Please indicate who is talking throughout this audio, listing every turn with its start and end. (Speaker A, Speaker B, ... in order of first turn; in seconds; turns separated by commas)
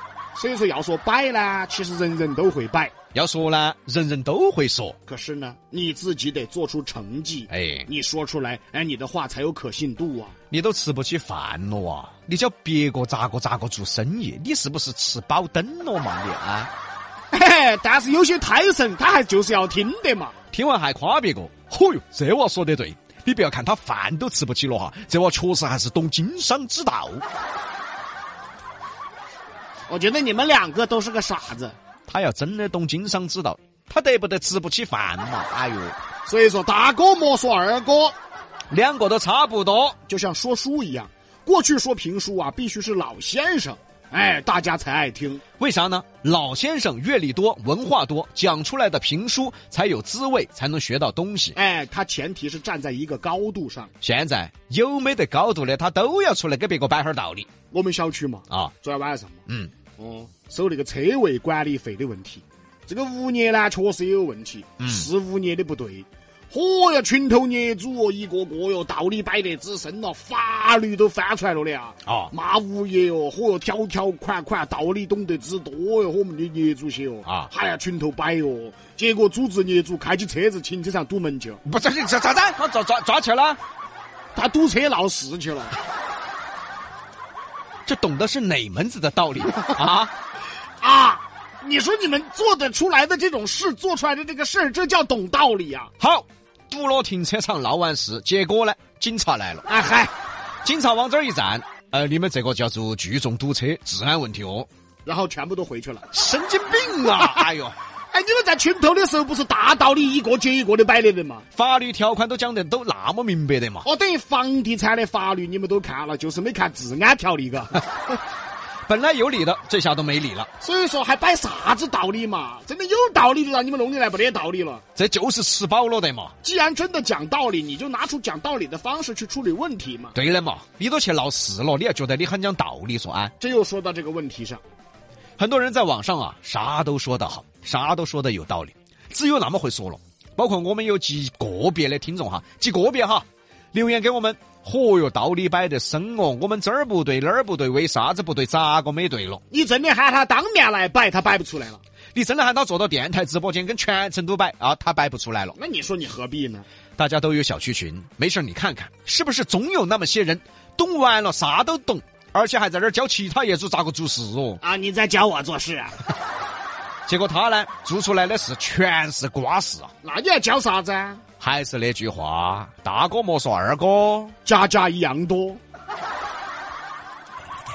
Speaker A: 0.3-2.9, Speaker B: 3.1-5.0, Speaker A: 5.1-10.3, Speaker B: 7.5-7.9, Speaker B: 10.5-16.7, Speaker A: 17.3-20.3, Speaker B: 20.5-27.2, Speaker A: 29.9-31.8, Speaker B: 32.1-36.0, Speaker A: 36.3-38.1, Speaker B: 38.7-40.0, Speaker A: 40.1-45.4, Speaker B: 45.6-51.6, Speaker A: 51.5-53.9, Speaker B: 54.0-57.5, Speaker A: 57.7-59.4, Speaker B: 59.5-59.7, Speaker A: 60.0-81.6, Speaker B: 64.8-65.1, Speaker B: 72.0-72.3, Speaker B: 77.2-77.5, Speaker B: 81.6-83.6, Speaker A: 84.3-85.8, Speaker B: 87.9-90.1, Speaker A: 90.8-95.9, Speaker B: 96.0-99.7, Speaker A: 99.7-100.1, Speaker B: 100.6-104.7, Speaker A: 105.0-106.1, Speaker B: 106.1-107.8, Speaker A: 107.2-107.5, Speaker A: 108.1-111.5, Speaker B: 111.5-113.9, Speaker A: 113.8-117.8, Speaker B: 118.9-120.5, Speaker A: 120.6-124.8, Speaker B: 125.0-126.3, Speaker A: 126.4-130.2, Speaker B: 130.2-133.3, Speaker A: 133.4-134.6, Speaker B: 135.4-149.4, Speaker A: 149.5-151.8, Speaker B: 152.2-155.6, Speaker A: 155.6-156.7, Speaker B: 157.0-164.6, Speaker A: 164.6-166.0, Speaker B: 167.1-169.9, Speaker A: 170.0-171.2, Speaker B: 171.4-174.3, Speaker A: 174.4-175.6